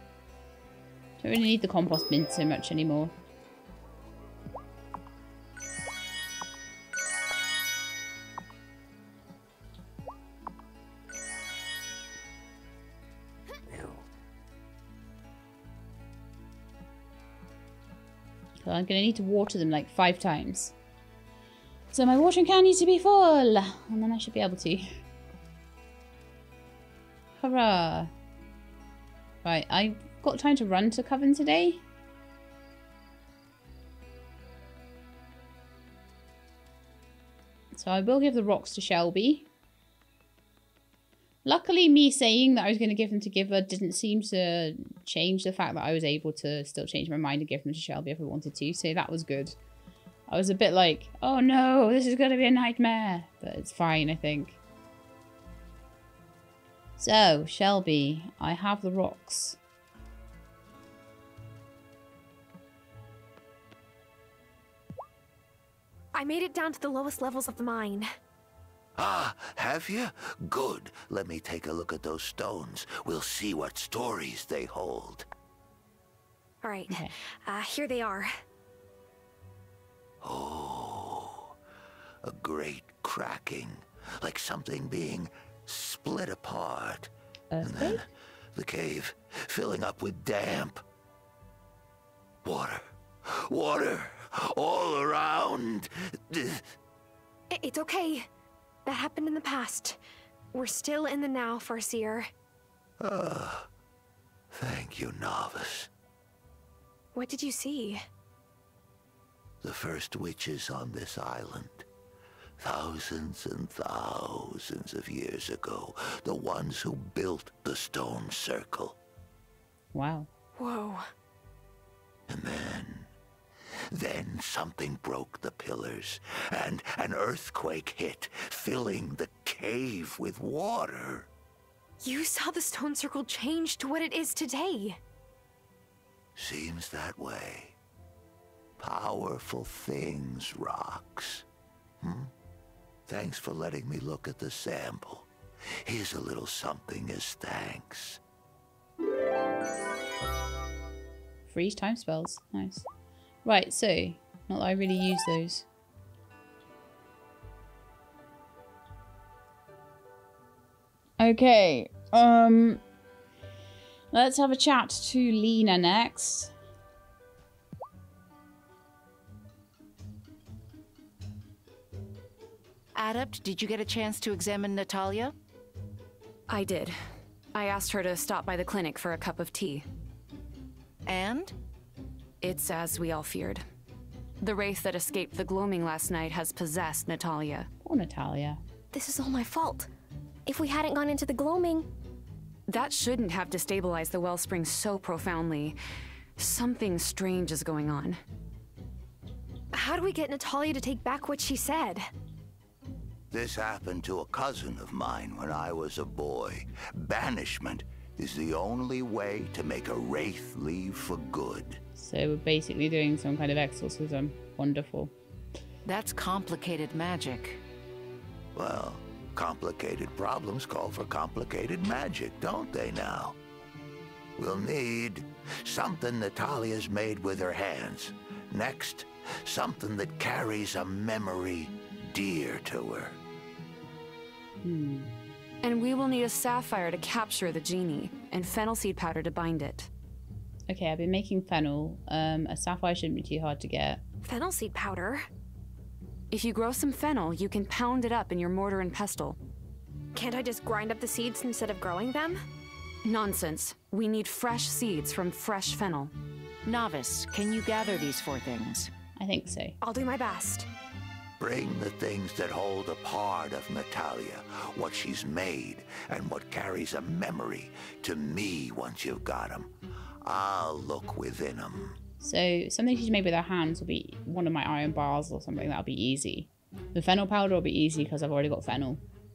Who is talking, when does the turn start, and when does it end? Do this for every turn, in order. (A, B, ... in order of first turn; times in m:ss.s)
0:01.2-0:03.1 A
0:18.6-0:20.7 A
0:21.9-0:25.0 A
0:27.4-0:28.1 A
0:29.4-0:31.8 A
0:37.7-0:39.5 A
0:41.4-0:49.6 A
0:50.3-0:54.6 A
0:57.0-0:59.6 A
1:06.1-1:08.1 B
1:09.0-1:15.3 C
1:16.6-1:18.3 B
1:20.2-1:21.5 C
1:22.2-1:30.8 C
1:27.5-1:28.0 A
1:32.4-1:36.7 C
1:37.5-1:38.3 B
1:38.8-1:40.0 B
1:40.5-1:42.3 B
1:43.0-1:43.7 C
1:44.5-1:45.9 C
1:47.1-1:48.0 B
1:49.6-1:51.8 C
1:52.6-1:59.0 C
1:59.9-2:00.3 A
2:00.6-2:01.1 B
2:02.3-2:03.1 C
2:03.9-2:11.3 C
2:12.0-2:15.0 B
2:16.4-2:17.8 C
2:18.8-2:21.4 C
2:22.0-2:22.3 C
2:23.1-2:25.3 C
2:25.8-2:28.2 C
2:31.5-2:32.9 A
2:33.4-2:35.6 A
2:41.2-2:42.8 A
2:44.1-2:46.5 A
2:52.9-2:55.3 D
2:56.5-2:57.0 E
2:57.5-2:59.8 E
3:01.0-3:01.5 D
3:02.4-3:03.6 E
3:04.4-3:07.7 E
3:07.8-3:08.6 A
3:08.9-3:09.9 F
3:10.4-3:11.9 F
3:12.7-3:15.8 E
3:16.4-3:18.2 E
3:19.7-3:22.1 B
3:23.3-3:31.8 C
3:32.0-3:35.1 A
3:35.8-3:37.6 D
3:38.5-3:43.4 C
3:44.4-3:53.2 C
3:54.6-3:55.1 A
3:55.6-3:59.9 E
4:00.7-4:04.0 A
4:04.2-4:05.3 B
4:06.3-4:09.4 E
4:10.1-4:12.4 B
4:13.0-4:16.1 E
4:16.6-4:18.9 D
4:19.2-4:19.8 A
4:19.8-4:20.7 B
4:21.4-4:29.7 C
4:30.2-4:32.0 C
4:32.2-4:39.0 A